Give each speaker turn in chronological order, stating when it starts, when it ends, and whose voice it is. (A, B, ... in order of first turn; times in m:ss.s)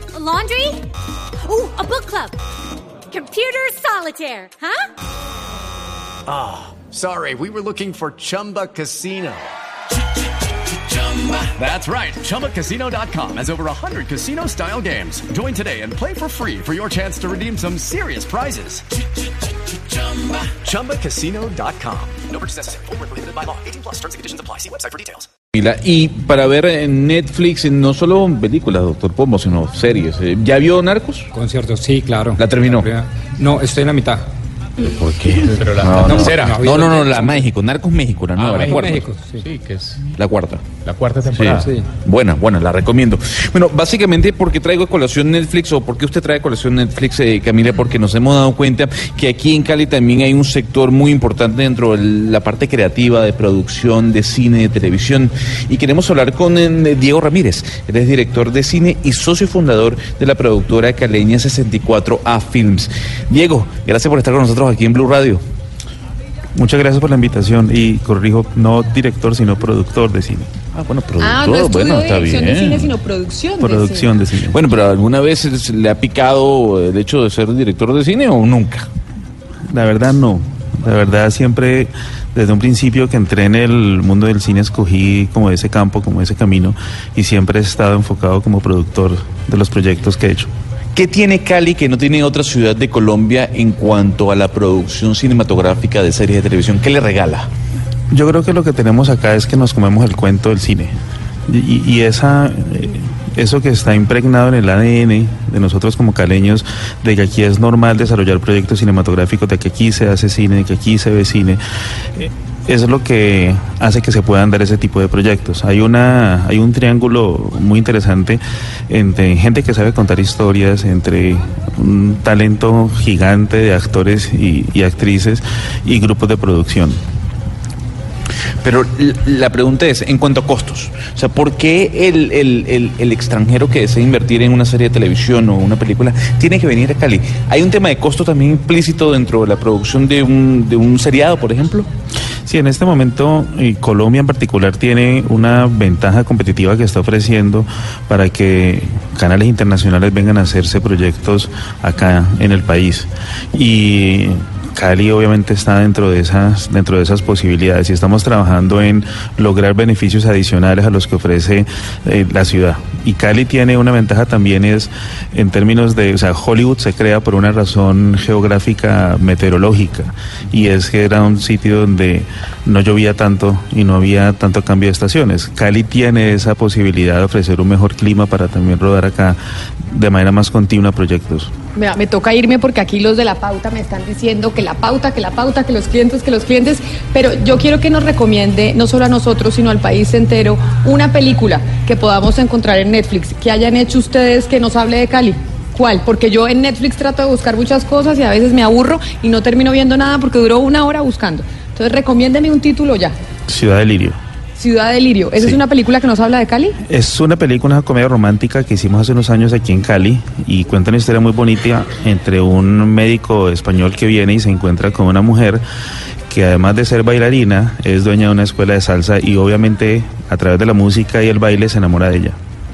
0:00.1-0:00.8 A
0:01.4-0:02.4 A
0:03.1-0:04.8 A
0:06.2-0:09.5 B
0:10.7-0:18.9 B
0:19.9-0:25.3 B
0:25.5-0:31.3 C
0:31.3-0:34.3 D
0:32.4-0:32.9 C
0:34.9-0:39.1 C
0:35.5-0:36.5 E
0:35.9-0:37.5 D
0:38.4-0:38.7 E
0:38.5-0:39.5 D
0:39.4-0:40.1 E
0:40.1-0:40.7 C
0:40.8-0:41.7 E
0:41.3-1:05.4 C
0:41.6-0:41.9 D
1:06.6-1:10.5 F
1:10.7-1:12.9 C
1:11.2-1:14.1 G
1:13.6-1:14.6 F
1:14.5-1:18.9 C
1:19.7-1:30.5 F
1:30.9-1:37.5 C
1:38.1-1:40.9 F
1:41.5-1:51.6 F
1:52.2-2:07.0 F
2:08.6-2:21.9 C
2:22.5-2:59.4 F
2:59.9-3:01.5 F
3:01.7-3:23.1 G
3:23.5-3:24.2 F
3:24.6-3:26.8 G
3:26.9-3:35.6 F
3:36.3-3:42.4 F